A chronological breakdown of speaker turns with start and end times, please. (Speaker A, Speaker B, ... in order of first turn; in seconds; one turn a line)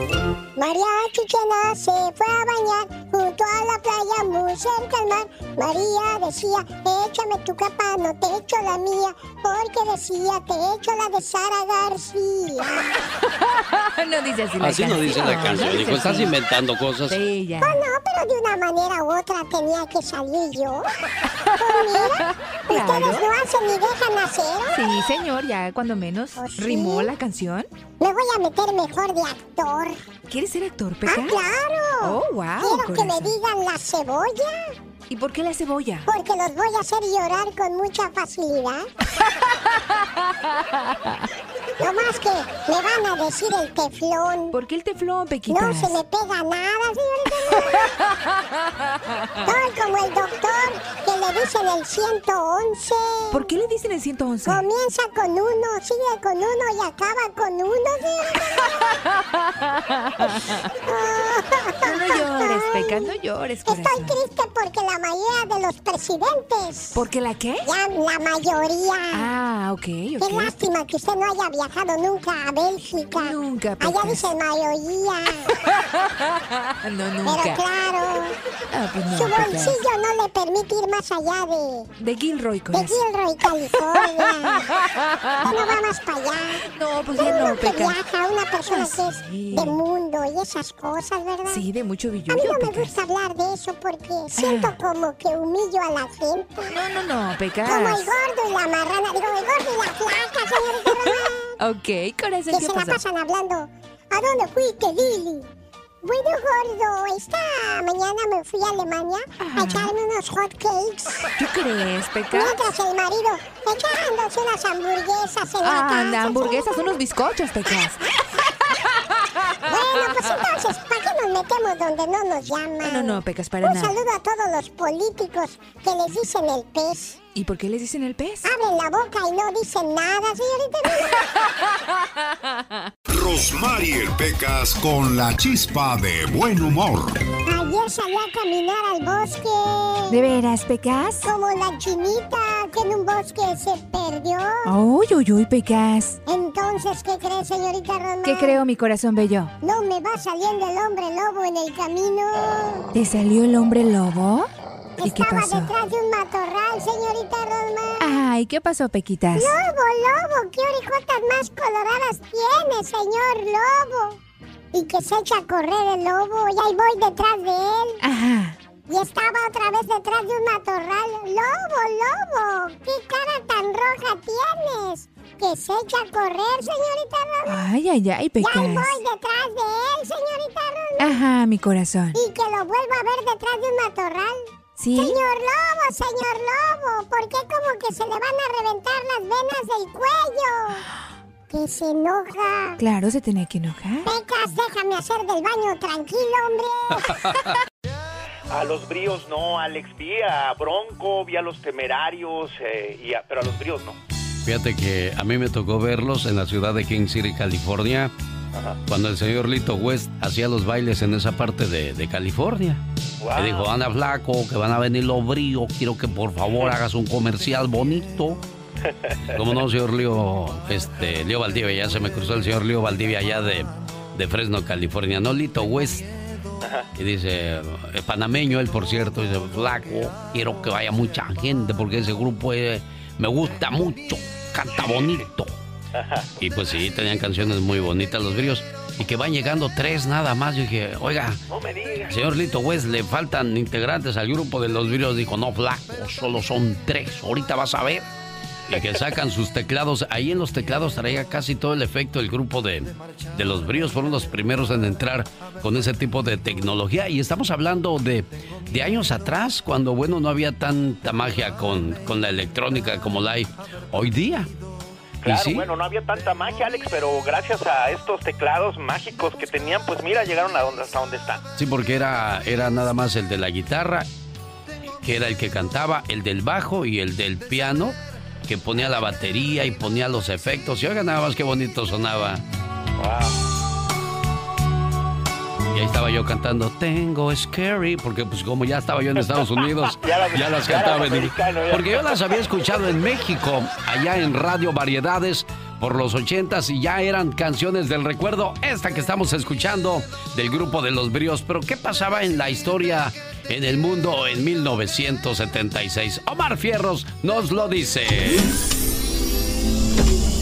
Speaker A: 0.6-12.9
Speaker B: 14.0-16.3
Speaker C: 14.6-17.2
Speaker B: 17.1-17.7
Speaker A: 17.6-20.9
Speaker A: 21.6-24.9
Speaker B: 22.7-23.3
Speaker B: 24.8-27.7
Speaker A: 26.4-27.1
Speaker A: 28.0-30.0
Speaker B: 30.3-33.3
Speaker A: 31.1-34.7
Speaker B: 35.1-36.0
Speaker A: 36.0-38.9
Speaker A: 41.8-44.6
Speaker B: 44.5-46.0
Speaker A: 45.5-47.8
Speaker A: 49.5-53.4
Speaker B: 53.3-54.6
Speaker A: 54.5-58.6
Speaker A: 60.9-63.1
Speaker B: 61.9-64.2
Speaker A: 63.6-67.0
Speaker B: 67.0-67.6
Speaker A: 67.6-69.3
Speaker B: 69.2-70.5
Speaker A: 70.2-75.5
Speaker B: 73.2-74.2
Speaker B: 76.8-77.6
Speaker A: 77.2-78.3
Speaker B: 78.7-79.8
Speaker A: 79.1-81.9
Speaker B: 82.0-83.0
Speaker A: 82.7-84.7
Speaker A: 85.4-91.7
Speaker B: 86.8-88.0
Speaker B: 88.7-89.8
Speaker B: 91.5-93.0
Speaker A: 92.3-96.8
Speaker B: 94.4-94.8
Speaker B: 96.7-98.2
Speaker A: 97.6-101.5
Speaker B: 100.8-103.0
Speaker A: 102.5-105.5
Speaker A: 106.0-111.2
Speaker B: 109.4-109.9
Speaker B: 111.4-112.6
Speaker A: 112.3-116.9
Speaker B: 115.6-118.0
Speaker A: 119.7-127.2
Speaker B: 122.8-124.0
Speaker B: 127.3-128.4
Speaker A: 128.4-131.3
Speaker D: 133.1-137.2
Speaker A: 137.5-140.2
Speaker B: 140.1-141.3
Speaker A: 141.2-144.7
Speaker B: 144.7-146.2
Speaker A: 146.3-148.6
Speaker B: 148.2-149.5
Speaker A: 149.6-152.9
Speaker B: 152.9-154.5
Speaker A: 155.0-158.1
Speaker B: 155.0-155.7
Speaker B: 158.0-159.6
Speaker A: 159.3-164.2
Speaker A: 164.7-168.0
Speaker B: 168.0-168.6
Speaker A: 168.9-177.6
Speaker B: 177.5-179.0
Speaker A: 178.4-181.2
Speaker B: 181.0-182.2
Speaker A: 182.1-190.8
Speaker B: 184.8-185.2
Speaker A: 191.5-192.8
Speaker B: 192.8-194.1
Speaker A: 194.0-197.4
Speaker C: 197.1-197.5
Speaker E: 198.5-204.0
Speaker C: 204.4-208.1
Speaker C: 208.9-212.8
Speaker E: 213.2-213.7
Speaker C: 213.4-218.4
Speaker E: 218.9-219.4
Speaker C: 219.3-226.1
Speaker C: 226.9-235.6
Speaker E: 234.9-235.2
Speaker E: 235.9-236.3
Speaker C: 236.4-241.4
Speaker E: 241.5-242.2
Speaker C: 242.1-248.1
Speaker C: 248.7-264.5
Speaker E: 265.2-271.4
Speaker C: 265.2-265.6
Speaker C: 271.6-274.1
Speaker C: 275.0-282.4
Speaker E: 283.0-283.4
Speaker C: 285.7-308.5
Speaker E: 289.9-292.5